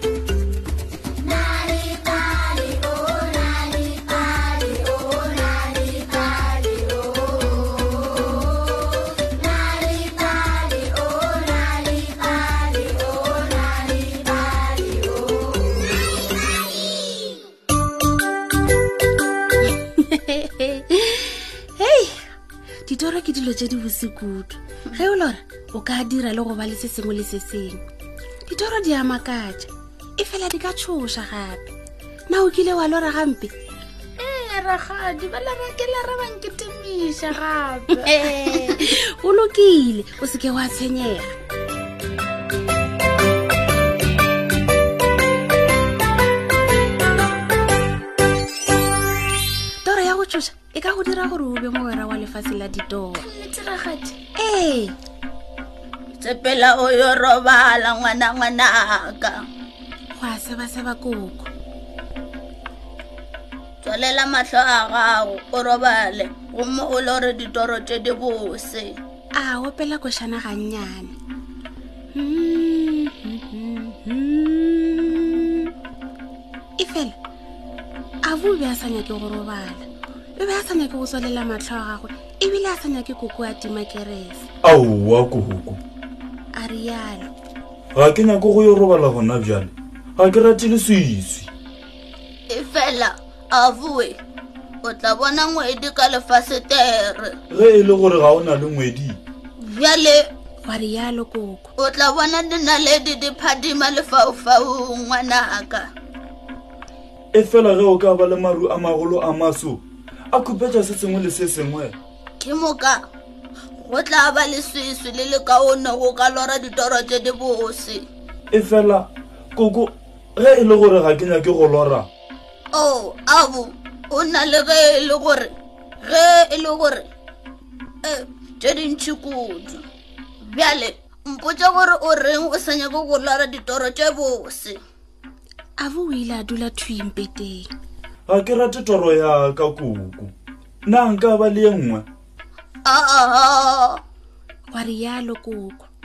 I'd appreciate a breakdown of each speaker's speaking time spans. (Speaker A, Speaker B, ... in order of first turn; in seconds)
Speaker A: 11.0-11.3, 34.2-38.8, 53.3-54.1, 56.2-59.4, 63.8-69.0, 92.5-94.2, 94.8-97.4, 99.6-100.3, 101.8-105.8, 112.4-113.0, 113.8-118.0, 122.7-127.0, 128.0-129.8, 130.4-134.8, 142.8-144.0
Speaker B: 19.6-22.2, 22.9-27.8, 28.5-31.7, 32.3-33.5, 37.9-41.3, 49.8-53.3, 54.4-54.9, 60.1-61.5, 69.4-71.1, 72.1-75.7, 76.8-77.2, 78.2-84.5, 86.5-87.3, 100.6-101.7, 135.8-137.7, 144.7-145.9
Speaker C: 84.6-85.8, 87.9-91.5, 97.5-99.2, 107.3-109.8, 110.3-111.9, 118.5-122.1, 138.3-140.3, 140.9-142.0